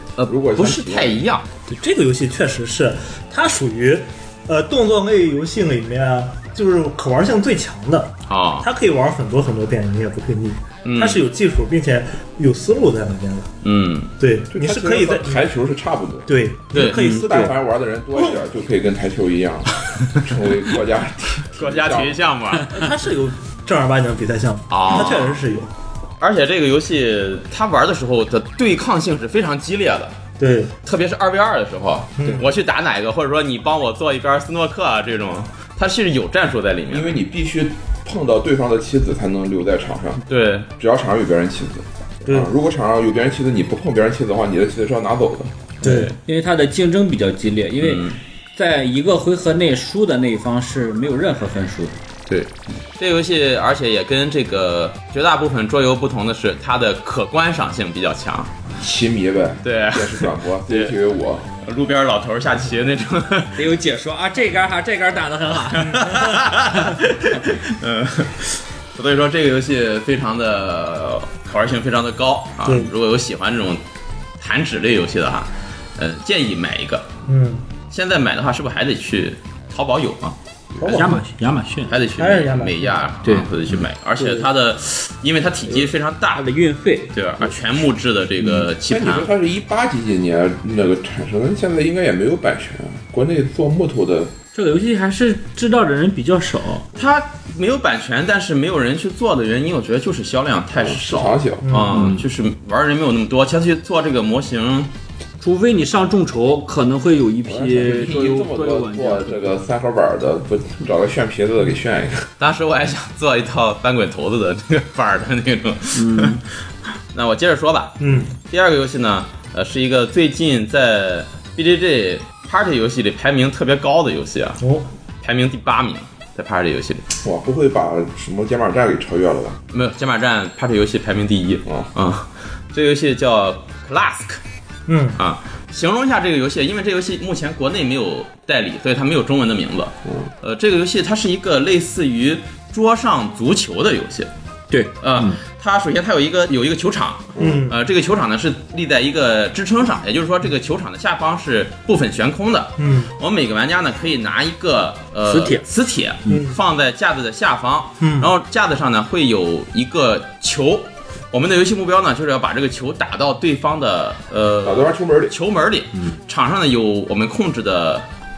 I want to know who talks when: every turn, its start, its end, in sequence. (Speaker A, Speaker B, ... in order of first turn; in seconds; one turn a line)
Speaker A: 0.2-1.4
Speaker B: 0.2-1.2
Speaker C: 1.7-13.5
Speaker A: 8.3-8.7
Speaker A: 10.8-11.2
Speaker A: 13.6-14.1
Speaker C: 14.2-15.5
Speaker B: 14.5-16.4
Speaker C: 16.3-17.5
Speaker A: 16.7-17.1
Speaker B: 16.9-22.2
Speaker D: 16.9-17.5
Speaker A: 21.6-22.8
Speaker C: 22.7-25.7
Speaker A: 24.7-25.4
Speaker A: 26.2-30.1
Speaker C: 30.4-30.7
Speaker A: 30.8-37.2
Speaker C: 32.2-32.5
Speaker B: 36.9-40.2
Speaker A: 40.2-40.7
Speaker B: 40.8-45.7
Speaker C: 42.2-42.5
Speaker A: 45.8-46.1
Speaker C: 45.8-46.1
Speaker D: 46.2-51.9
Speaker A: 47.8-48.2
Speaker A: 52.3-58.5
Speaker B: 58.8-61.5
Speaker A: 59.6-60.9
Speaker A: 61.6-63.6
Speaker D: 63.5-66.2
Speaker A: 65.7-73.8
Speaker C: 72.6-72.9
Speaker A: 74.4-77.1
Speaker C: 77.3-77.6
Speaker A: 77.9-81.1
Speaker C: 80.8-81.2
Speaker D: 80.9-82.0
Speaker A: 81.9-86.4
Speaker C: 82.2-83.0
Speaker D: 83.2-84.4
Speaker D: 86.3-87.5
Speaker A: 87.1-89.3
Speaker D: 88.4-88.7
Speaker B: 88.9-94.3
Speaker D: 94.5-96.8
Speaker A: 97.0-104.9
Speaker B: 100.7-101.7
Speaker C: 101.6-102.1
Speaker D: 101.9-102.2
Speaker D: 105.4-109.6
Speaker B: 107.4-112.3
Speaker A: 112.4-116.4
Speaker D: 115.9-116.4
Speaker A: 117.1-124.6
Speaker C: 118.0-118.3
Speaker C: 124.6-124.9
Speaker A: 125.2-127.1
Speaker B: 127.2-129.6
Speaker A: 129.7-134.4
Speaker C: 134.9-135.2
Speaker A: 135.2-144.3
Speaker D: 144.7-145.4
Speaker A: 145.0-168.1
Speaker B: 147.3-147.6
Speaker C: 147.4-147.8
Speaker C: 152.8-153.1
Speaker D: 155.2-155.6
Speaker C: 156.3-156.6
Speaker C: 158.0-158.3
Speaker B: 164.6-165.3